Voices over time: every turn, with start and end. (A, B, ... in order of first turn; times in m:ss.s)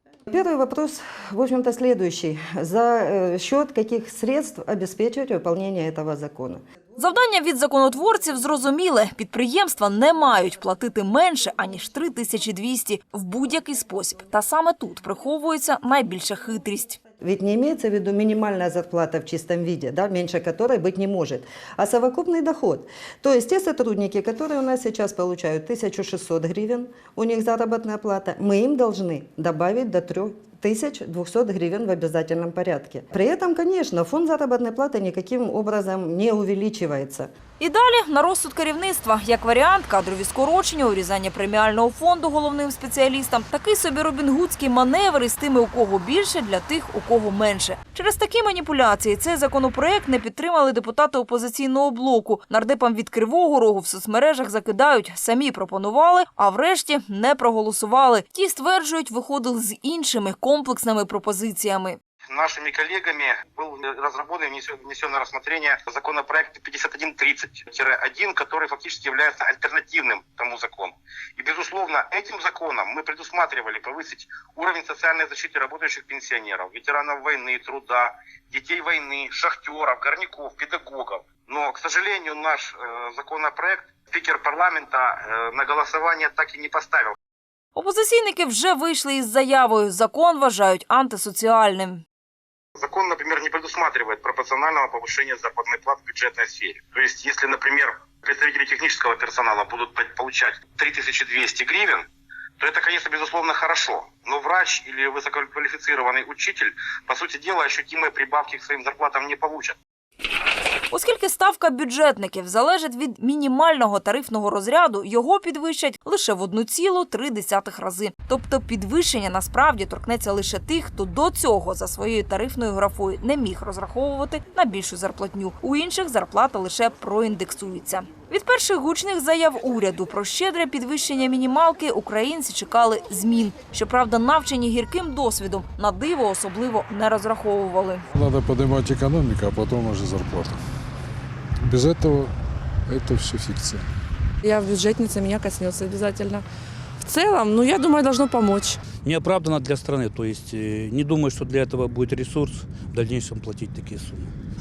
0:00.3-0:06.6 A
0:07.0-0:17.0 B
0:17.2-0:37.3 A
0:37.6-1:02.0 B
1:02.3-1:27.2 C
1:27.7-1:32.0 B
1:32.8-1:42.0 C
1:42.6-1:49.8 C
1:50.9-2:18.0 B
2:18.1-2:20.6 D
2:21.6-2:22.3 D
2:22.9-2:23.8 D
2:24.5-2:26.4 E
2:27.0-2:28.7 E
2:29.0-2:34.3 F